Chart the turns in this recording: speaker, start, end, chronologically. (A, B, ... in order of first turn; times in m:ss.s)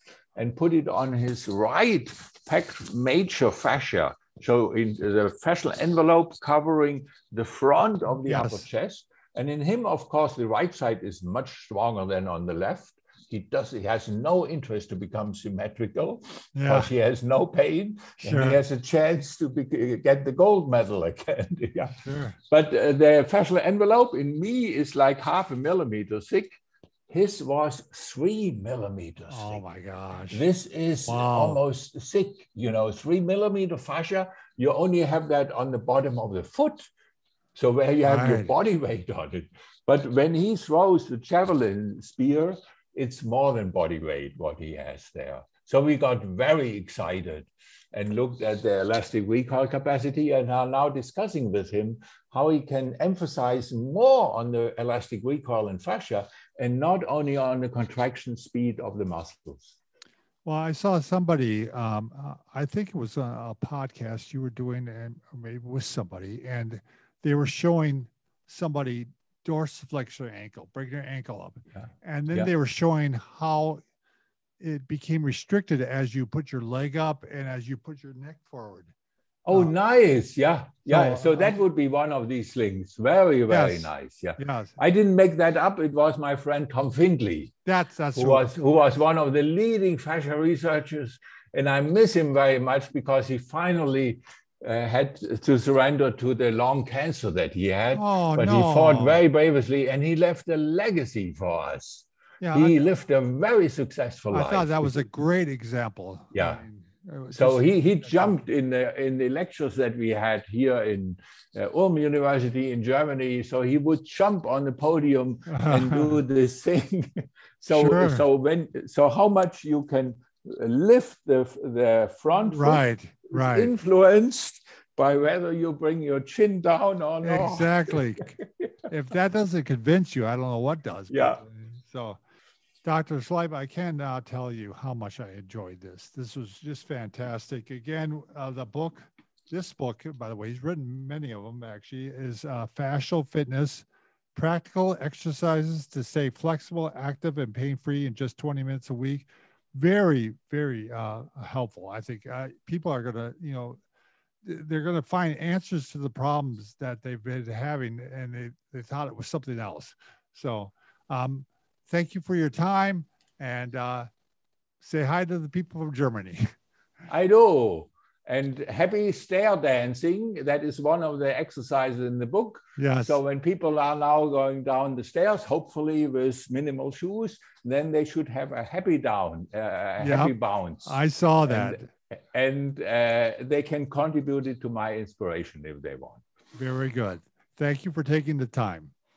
0:00.4-0:29.6 A
0:08.2-0:08.6 B
0:16.6-0:16.9 B
0:18.2-0:18.6 B
0:22.0-0:22.4 B
0:29.3-0:30.4 B
0:30.3-0:36.9 A
0:31.1-0:31.6 B
0:37.6-0:59.8 A
0:38.0-0:38.5 B
1:00.4-1:13.8 B
1:11.8-1:12.5 A
1:14.6-1:18.9 B
1:19.5-1:27.5 A
1:20.9-1:21.6 B
1:23.5-1:24.8 B
1:27.6-1:28.4 B
1:28.1-1:45.0 A
1:37.9-1:39.2 B
1:42.4-1:42.8 B
1:44.3-1:48.4 B
1:46.3-1:46.6 A
1:47.3-2:08.7 A
1:55.5-1:56.2 B
1:57.7-1:58.3 B
2:02.4-2:03.7 B
2:07.2-2:08.4 B
2:08.9-2:12.2 B
2:11.1-2:11.4 A
2:12.8-2:33.8 B
2:34.4-2:44.1 B
2:44.8-2:46.5 B
2:47.1-3:06.2 A
2:52.8-2:53.2 B
3:00.0-3:01.9 B
3:06.6-3:08.9 B